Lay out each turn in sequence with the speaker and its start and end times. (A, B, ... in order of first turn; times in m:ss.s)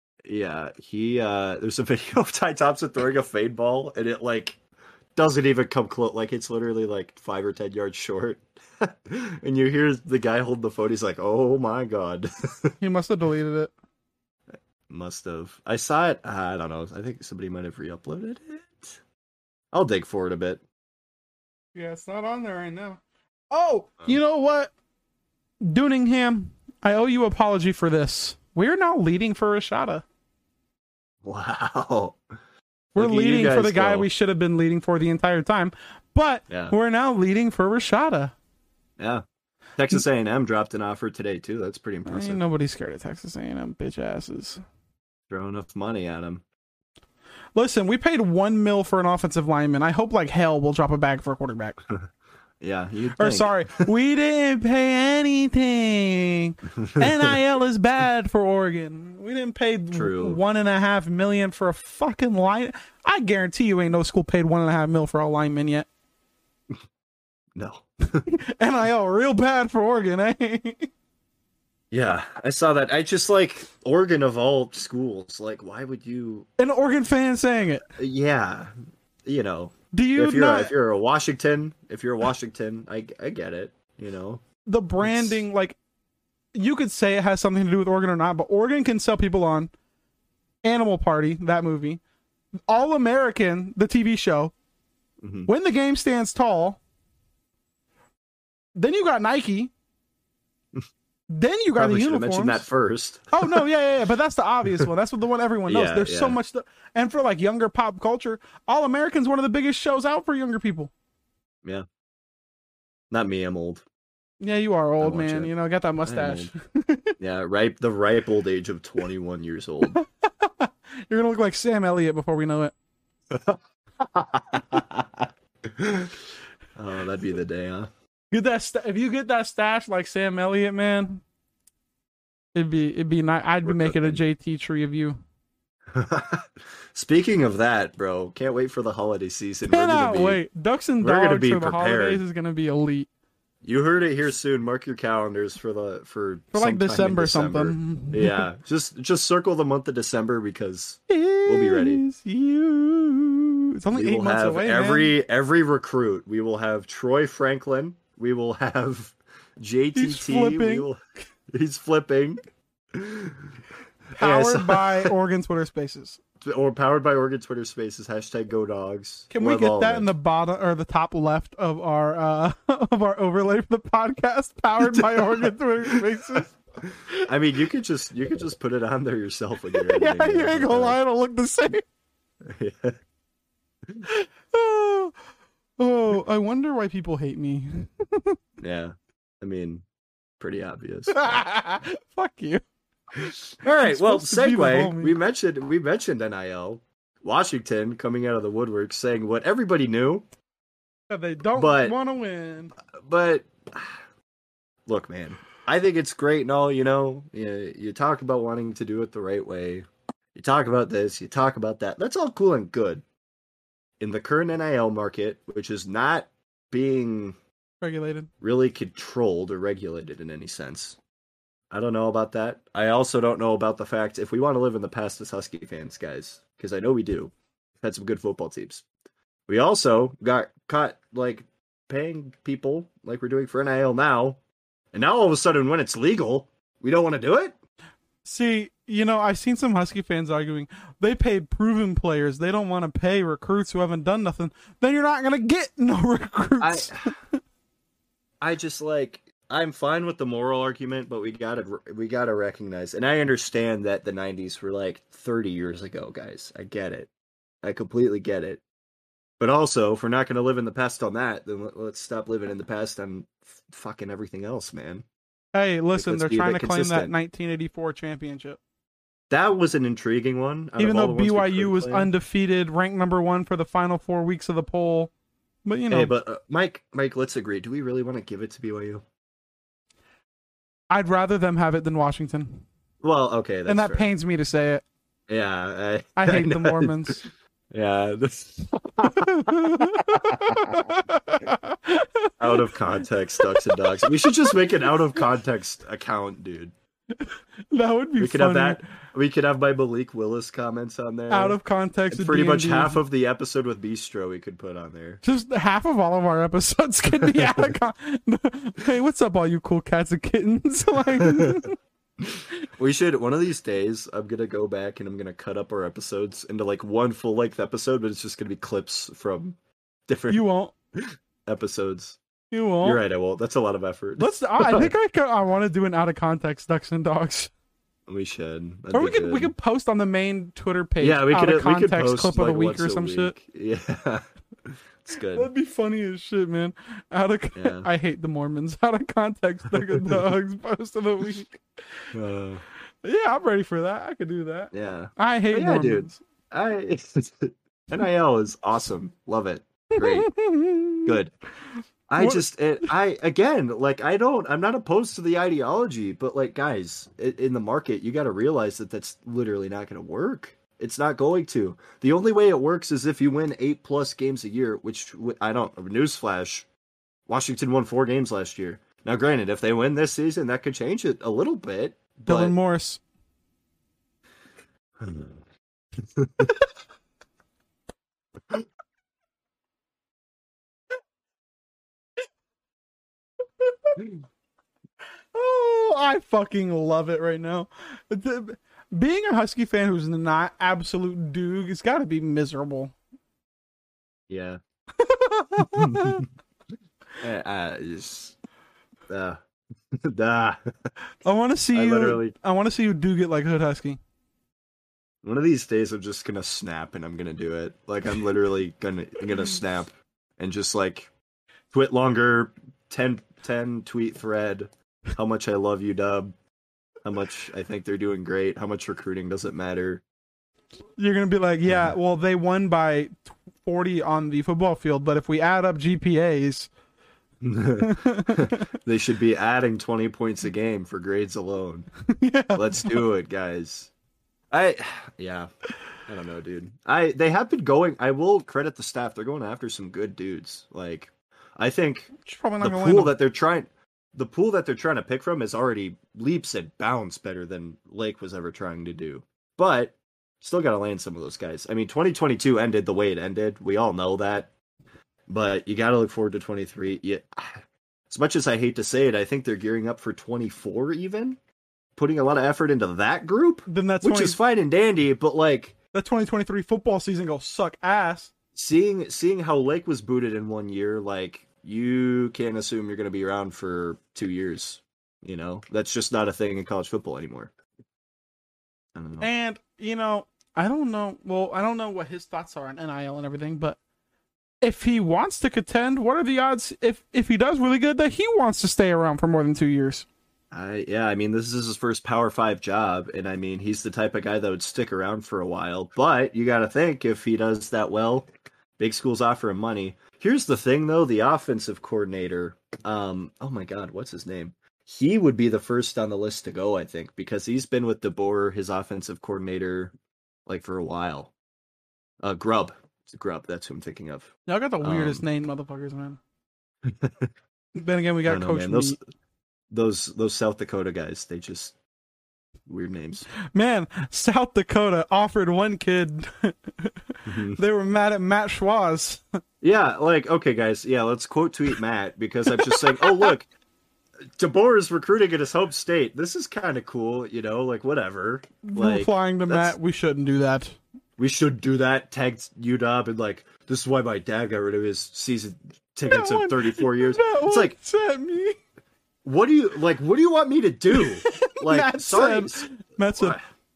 0:00.2-0:04.6 A
0:05.2-0:12.8 A
0:12.8-0:13.7 B
0:14.9-0:19.0 A
0:19.7-0:20.6 A
0:21.8-0:24.7 B
0:25.6-0:30.0 B
0:31.2-0:32.2 A
0:33.0-0:38.4 B
0:33.0-0:34.1 A
0:36.5-0:36.8 A
0:39.0-0:39.2 A
0:39.8-0:42.4 A
0:42.1-0:44.6 B
0:45.3-0:46.4 A
0:47.6-0:51.8 B
0:52.6-0:53.9 A
0:53.2-1:05.9 B
0:56.8-0:57.3 A
0:59.9-1:00.4 A
1:07.6-1:08.2 A
1:08.2-1:10.9 B
1:11.9-1:16.5 A
1:16.6-1:17.8 B
1:18.0-1:18.7 A
1:19.3-1:24.4 A
1:19.9-1:20.7 B
1:24.6-1:25.8 B
1:25.0-1:25.4 A
1:26.5-1:29.7 B
1:30.6-1:32.0 B
1:32.7-1:34.5 B
1:35.2-1:35.5 A
1:35.5-1:36.8 B
1:38.8-1:39.7 B
1:41.3-1:42.7 B
1:41.8-1:43.6 A
1:43.3-1:50.9 B
1:45.7-1:46.4 A
1:53.1-1:53.8 A
1:54.4-1:57.2 B
1:55.0-1:55.5 A
1:56.1-1:56.5 A
1:57.2-2:00.0 A
1:59.8-2:02.7 B
2:03.3-2:06.1 A
2:06.8-2:07.9 A
2:08.3-2:11.2 B
2:12.5-2:15.2 B
2:13.6-2:14.2 A
2:15.9-2:20.4 A
2:19.6-2:23.1 B
2:21.0-2:22.2 A
2:23.6-2:32.0 A
2:26.5-2:28.5 B
2:31.1-2:35.2 B
2:33.9-2:41.0 A
2:40.0-2:40.9 B
2:41.5-2:42.4 A
2:42.9-2:43.6 A
2:44.2-2:46.2 B
2:44.2-2:45.1 A
2:46.4-2:50.1 A
2:49.3-2:56.5 B
2:54.8-2:56.0 A
2:56.8-3:01.0 A
2:59.8-3:01.8 B
3:02.5-3:03.0 A
3:04.0-3:05.2 B
3:05.8-3:08.4 B
3:08.6-3:09.8 A
3:10.4-3:11.4 A
3:11.1-3:12.6 B
3:13.2-3:15.2 B
3:13.6-3:20.3 A
3:21.1-3:22.7 B
3:21.5-3:22.0 A
3:23.0-3:24.0 A
3:24.9-3:33.0 A
3:34.0-3:37.4 A
3:37.8-3:38.3 B
3:38.4-3:41.0 A
3:41.7-3:48.8 A
3:49.5-3:54.4 A
3:54.9-3:57.6 A
3:58.2-4:07.4 B
4:06.6-4:07.1 A
4:08.4-4:17.1 A
4:17.6-4:18.6 A
4:19.4-4:25.0 A
4:25.5-4:28.6 B
4:25.9-4:27.1 A
4:29.3-4:32.1 A
4:30.8-4:35.1 B
4:35.6-4:36.1 B
4:35.9-4:39.0 A
4:40.9-4:42.6 B
4:43.0-4:44.1 A
4:43.7-4:44.8 B
4:45.3-4:47.2 A
4:46.2-4:47.2 B
4:47.7-4:50.8 A
4:49.0-4:52.7 B
4:52.4-4:56.7 A
4:53.4-4:55.0 B
4:57.2-4:58.8 B
4:58.2-5:01.6 A
5:01.3-5:03.0 B
5:02.1-5:05.2 A
5:05.2-5:11.8 B
5:07.1-5:07.8 A
5:11.3-5:11.6 A
5:12.8-5:19.6 A
5:20.1-5:22.2 A
5:20.3-5:20.7 B
5:22.5-5:23.0 B
5:22.8-5:24.9 A
5:24.2-5:27.5 B
5:28.1-5:29.5 A
5:28.9-5:33.3 B
5:31.0-5:35.5 A
5:35.3-5:41.6 B
5:37.6-5:37.9 A
5:42.1-5:42.6 A
5:43.0-5:46.2 B
5:44.7-5:50.3 A
5:50.0-5:51.2 B
5:51.1-5:51.3 A
5:52.1-6:06.7 A
5:52.2-5:52.4 B
6:07.3-6:12.6 A
6:12.3-6:13.0 B
6:15.0-6:15.3 A
6:16.2-6:16.5 A
6:16.4-6:16.7 B
6:23.7-6:24.0 B
6:25.3-6:32.9 B
6:34.3-6:34.6 A
6:35.0-6:36.2 B
6:35.6-6:36.2 A
6:37.2-6:38.4 A
6:39.1-6:39.4 A
6:40.0-6:40.6 A
6:41.2-6:44.0 B
6:41.7-6:42.3 A
6:45.2-6:51.1 A
6:51.7-6:56.3 A
6:57.0-7:00.0 A
7:01.0-7:06.7 B
7:01.7-7:02.0 A
7:07.4-7:11.9 A
7:07.8-7:08.6 B
7:12.1-7:13.0 B
7:12.5-7:13.9 A
7:14.5-7:15.5 A
7:16.1-7:34.5 A
7:22.2-7:23.2 B
7:35.3-7:41.4 A
7:42.0-7:45.8 A
7:43.7-7:44.4 B
7:45.9-7:48.3 B
7:48.6-7:57.5 A
7:59.0-7:59.3 A
7:59.2-8:03.8 B
8:04.6-8:10.1 B
8:10.5-8:29.9 A
8:30.5-8:31.3 A
8:32.2-8:35.2 A
8:34.5-8:36.2 B
8:36.8-8:37.3 A
8:37.8-8:39.0 B
8:38.3-8:39.0 A
8:39.7-8:41.8 A
8:42.7-8:43.3 A
8:43.5-8:49.2 B
8:47.3-8:47.6 A
8:49.6-8:53.5 A
8:52.5-8:53.3 B
8:54.4-8:59.8 A
8:58.6-9:00.8 B
9:01.2-9:07.8 A
9:06.1-9:08.6 B
9:09.2-9:13.4 A
9:10.9-9:13.4 B